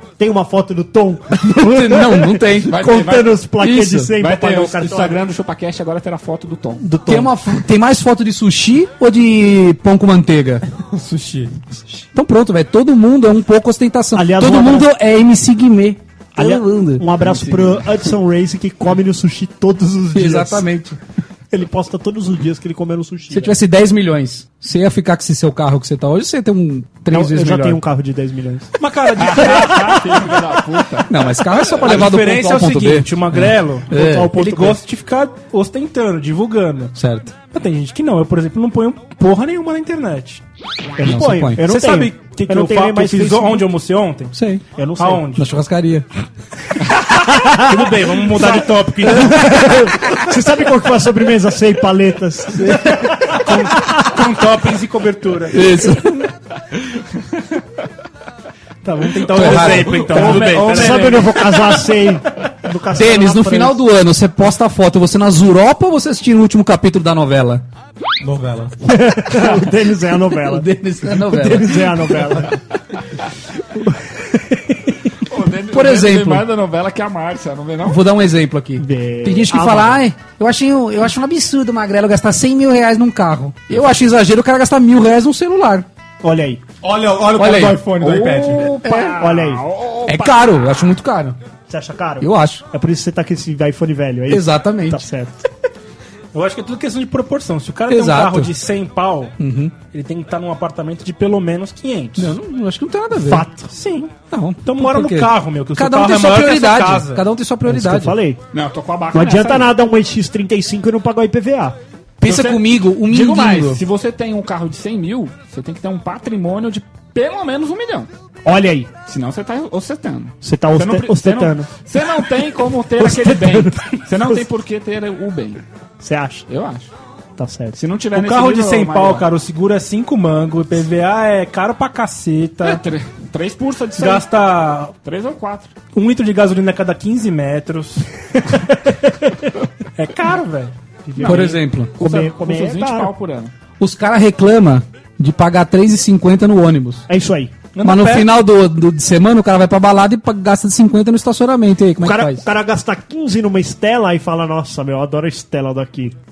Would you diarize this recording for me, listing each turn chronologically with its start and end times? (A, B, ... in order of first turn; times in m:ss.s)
0:00.2-0:05.2 A
0:01.4-0:02.9 B
0:02.7-0:03.4 C
0:03.6-0:04.1 B
0:04.2-0:06.8 C
0:06.8-0:07.3 A
0:07.0-0:10.6 B
0:10.7-0:11.6 D
0:12.1-0:17.0 B
0:14.2-0:14.9 A
0:16.4-0:20.7 A
0:17.2-0:17.8 C
0:20.2-0:21.0 B
0:21.5-0:23.6 A
0:23.3-0:27.8 B
0:27.1-0:28.7 A
0:28.8-0:30.1 E
0:29.2-0:31.1 C
0:31.1-0:34.4 B
0:31.8-0:40.4 E
0:33.9-0:34.8 A
0:37.0-0:37.4 B
0:41.0-0:43.6 A
0:41.0-0:41.6 B
0:41.6-0:44.3 E
0:44.3-0:44.6 B
0:44.8-0:45.3 A
0:45.0-0:45.4 E
0:45.4-0:46.1 B
0:47.1-0:54.2 A
0:47.5-0:49.7 E
0:52.5-0:55.7 E
0:55.5-0:56.3 B
0:58.8-0:59.8 A
0:59.0-1:01.0 E
0:59.3-1:00.5 B
0:59.5-1:01.8 C
1:00.3-1:03.8 A
1:02.9-1:07.6 B
1:08.2-1:08.8 D
1:08.8-1:12.6 A
1:10.4-1:12.2 B
1:13.7-1:15.0 A
1:15.3-1:18.0 C
1:15.7-1:16.4 B
1:17.8-1:25.9 B
1:18.8-1:20.0 A
1:26.2-1:26.6 A
1:26.8-1:28.8 D
1:27.4-1:27.8 B
1:28.0-1:30.6 C
1:28.8-1:29.2 B
1:29.2-1:29.6 A
1:30.1-1:31.4 B
1:31.7-1:35.5 A
1:32.2-1:32.6 B
1:34.3-1:35.0 B
1:36.3-1:42.4 E
1:37.9-1:38.5 B
1:39.4-1:39.8 B
1:42.2-1:43.5 B
1:43.2-1:43.7 A
1:43.7-1:47.3 E
1:44.3-1:48.2 B
1:47.6-1:48.4 A
1:48.5-1:49.7 C
1:49.1-1:51.8 A
1:52.2-1:53.8 B
1:52.2-1:58.1 C
1:58.4-1:58.9 A
1:59.1-2:05.6 C
2:00.4-2:01.7 A
2:03.0-2:04.4 A
2:06.0-2:06.5 A
2:06.5-2:06.9 C
2:07.4-2:07.8 A
2:07.8-2:09.3 C
2:08.1-2:12.8 E
2:12.6-2:14.3 C
2:14.0-2:14.9 E
2:15.0-2:15.7 C
2:15.9-2:18.7 E
2:18.9-2:19.5 A
2:20.0-2:20.7 E
2:21.1-2:23.1 A
2:21.2-2:21.9 B
2:21.2-2:23.5 C
2:23.8-2:27.0 B
2:27.1-2:27.6 A
2:27.7-2:28.3 E
2:27.8-2:32.5 B
2:32.0-2:36.2 A